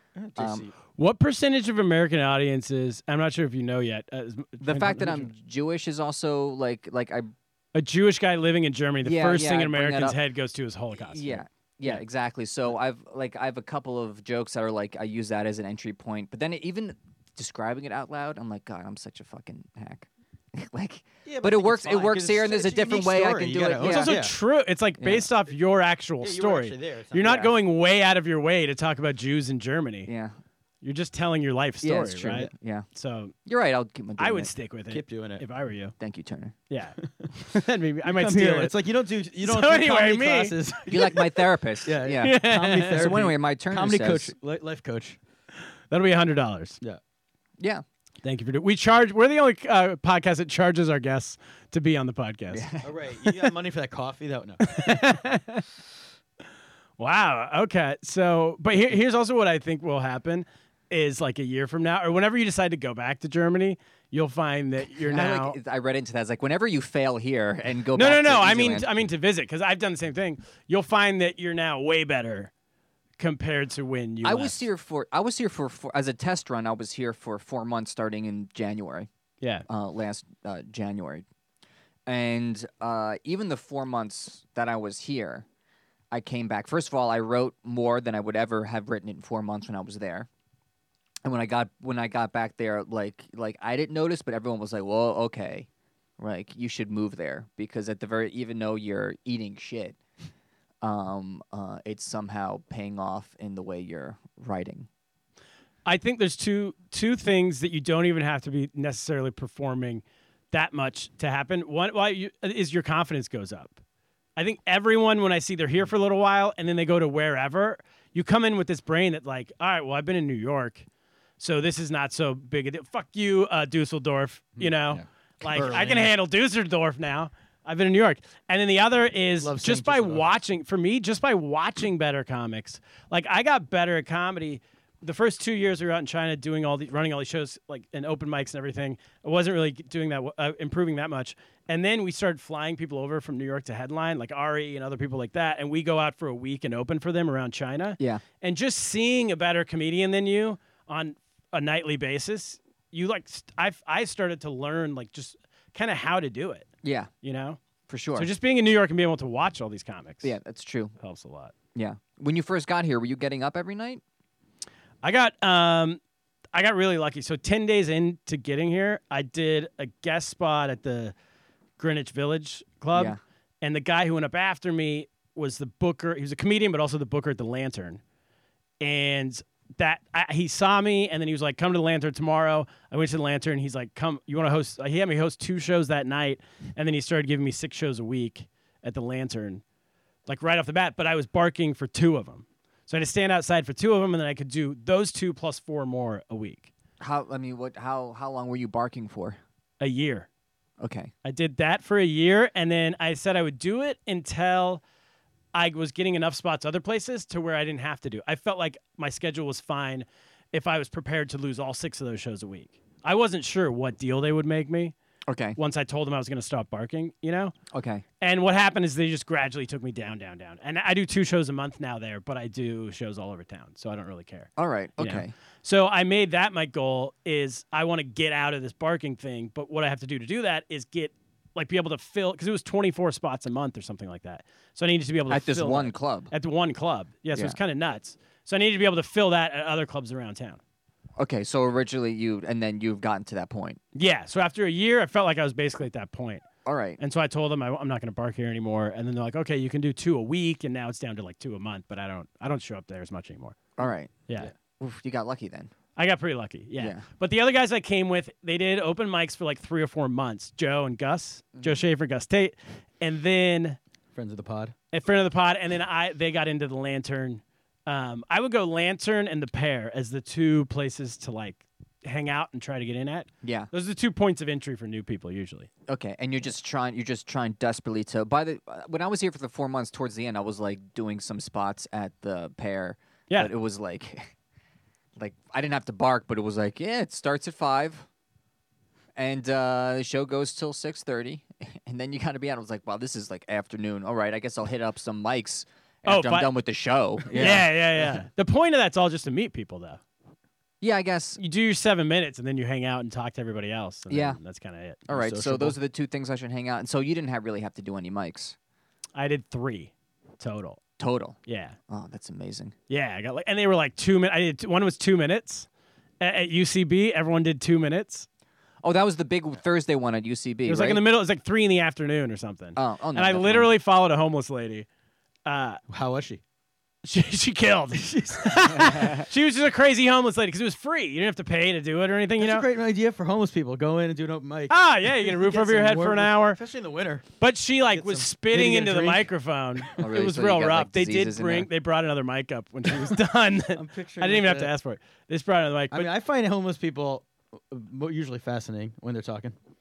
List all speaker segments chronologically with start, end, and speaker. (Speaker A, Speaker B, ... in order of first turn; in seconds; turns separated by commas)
Speaker A: 0.2-0.7, Speaker B: 0.4-0.7, Speaker C: 1.0-5.3, Speaker B: 4.6-7.3, Speaker C: 7.7-12.0, Speaker B: 9.0-10.2, Speaker B: 10.9-24.2, Speaker A: 21.2-24.3, Speaker C: 23.8-30.1, Speaker B: 25.0-25.3, Speaker A: 26.2-27.5, Speaker B: 30.1-30.4, Speaker C: 30.8-33.3, Speaker B: 31.8-32.9, Speaker B: 33.5-34.5, Speaker C: 34.2-35.9, Speaker A: 34.9-35.4, Speaker B: 36.0-36.5, Speaker C: 36.7-38.8, Speaker A: 38.0-45.2, Speaker C: 39.4-40.5, Speaker B: 40.9-44.3, Speaker C: 42.2-43.0, Speaker C: 45.9-46.8, Speaker C: 48.2-52.6, Speaker B: 52.5-52.9, Speaker A: 52.8-54.6, Speaker C: 54.6-55.6, Speaker C: 57.0-65.6, Speaker B: 64.9-68.9, Speaker C: 68.0-72.5, Speaker C: 73.2-74.6, Speaker B: 74.2-79.1, Speaker B: 79.7-81.2, Speaker B: 82.1-85.5, Speaker B: 86.1-90.3, Speaker B: 91.2-95.7, Speaker B: 96.2-100.0, Speaker B: 100.8-104.9, Speaker C: 105.8-113.8, Speaker C: 114.4-120.8, Speaker C: 121.4-156.7, Speaker A: 124.6-126.1, Speaker A: 129.4-130.3, Speaker B: 156.8-157.1, Speaker C: 157.2-157.6, Speaker B: 157.9-158.3, Speaker C: 158.2-160.3, Speaker B: 160.2-160.9, Speaker C: 161.0-161.5, Speaker B: 161.8-164.0, Speaker C: 165.0-166.0, Speaker C: 166.5-171.2, Speaker C: 171.8-178.0, Speaker B: 172.9-173.2, Speaker C: 178.8-189.6, Speaker C: 190.3-196.7, Speaker B: 197.0-199.4, Speaker C: 199.8-200.3, Speaker B: 200.8-201.1, Speaker C: 201.2-204.8, Speaker C: 205.5-214.9, Speaker B: 215.3-215.6, Speaker C: 215.6-217.5, Speaker B: 217.7-218.0, Speaker C: 218.2-240.6, Speaker B: 224.6-225.3, Speaker B: 235.3-236.3, Speaker B: 241.2-243.8, Speaker C: 243.9-246.4, Speaker B: 246.7-247.0, Speaker C: 247.0-253.6, Speaker B: 253.8-254.2, Speaker B: 254.8-255.7, Speaker C: 256.0-263.8, Speaker B: 256.8-257.0, Speaker A: 264.1-264.8, Speaker C: 264.9-275.7, Speaker B: 273.4-273.7, Speaker B: 275.9-284.3, Speaker B: 285.2-288.1, Speaker B: 289.2-298.1, Speaker C: 296.1-296.5, Speaker C: 297.3-300.0, Speaker B: 300.8-301.4, Speaker C: 301.4-305.0, Speaker B: 304.1-304.4, Speaker A: 305.1-305.8, Speaker B: 305.1-308.6, Speaker C: 309.1-310.8, Speaker B: 311.0-311.4, Speaker C: 311.5-311.8, Speaker B: 311.9-312.7, Speaker C: 312.9-315.7, Speaker C: 316.2-318.3, Speaker B: 318.8-321.0, Speaker C: 320.7-324.9, Speaker B: 322.8-323.7, Speaker C: 325.5-325.8, Speaker A: 325.9-326.4, Speaker C: 327.1-332.7, Speaker A: 327.9-328.9, Speaker A: 332.4-337.3, Speaker C: 334.7-336.6, Speaker C: 337.4-346.1, Speaker A: 337.9-339.3, Speaker B: 340.0-341.7, Speaker A: 343.7-344.7, Speaker A: 345.9-349.6